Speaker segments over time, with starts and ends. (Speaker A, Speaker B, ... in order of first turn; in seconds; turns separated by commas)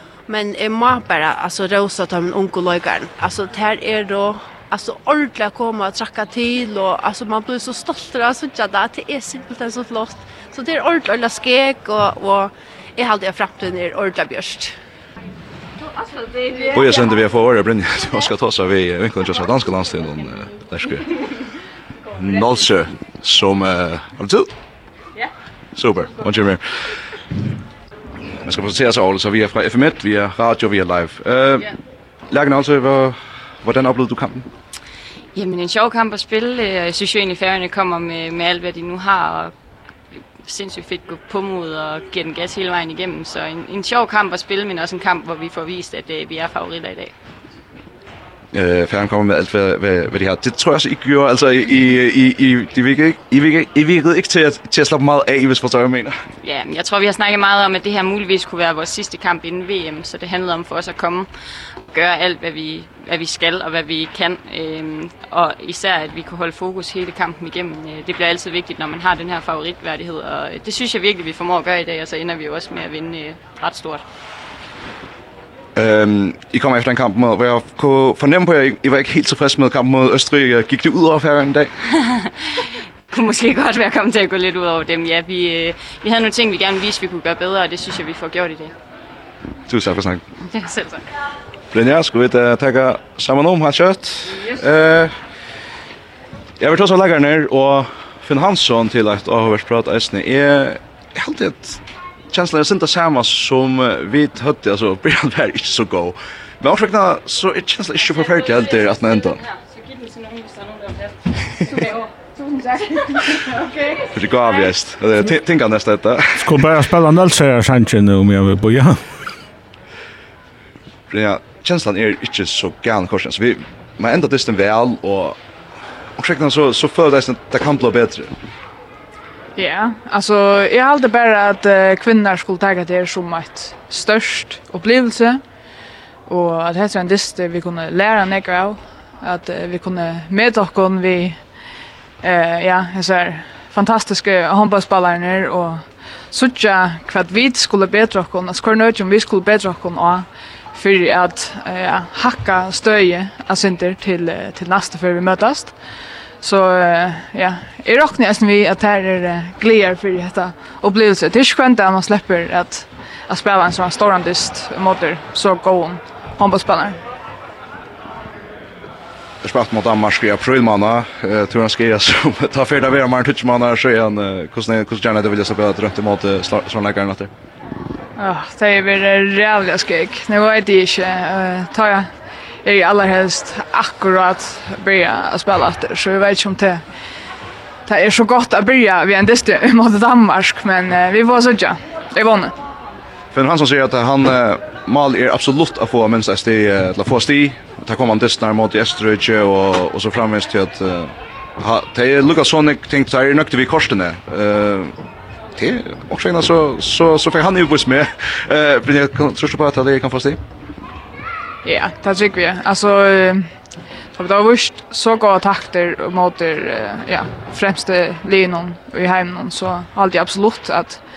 Speaker A: 0.3-14.7, Speaker B: 16.7-21.2, Speaker B: 22.1-24.5, Speaker B: 25.8-26.6, Speaker B: 28.4-31.7, Speaker B: 32.3-34.5, Speaker C: 35.4-39.5, Speaker C: 40.5-47.1, Speaker B: 48.5-56.2, Speaker C: 56.4-61.3, Speaker C: 61.8-74.0, Speaker B: 75.8-81.7, Speaker C: 82.0-82.3, Speaker C: 83.1-88.7, Speaker B: 89.7-90.2, Speaker C: 90.5-91.0, Speaker B: 91.7-95.1, Speaker B: 96.6-109.4, Speaker D: 111.7-113.7, Speaker B: 114.1-116.7, Speaker E: 116.4-119.0, Speaker B: 121.1-125.4, Speaker B: 126.2-128.3, Speaker D: 129.6-135.4, Speaker D: 136.3-141.4, Speaker D: 142.2-155.8, Speaker D: 156.4-167.0, Speaker B: 169.4-177.3, Speaker D: 178.2-182.1, Speaker D: 182.6-186.8, Speaker D: 187.9-192.5, Speaker B: 193.3-204.9, Speaker B: 205.6-210.4, Speaker D: 211.6-213.5, Speaker D: 214.2-221.0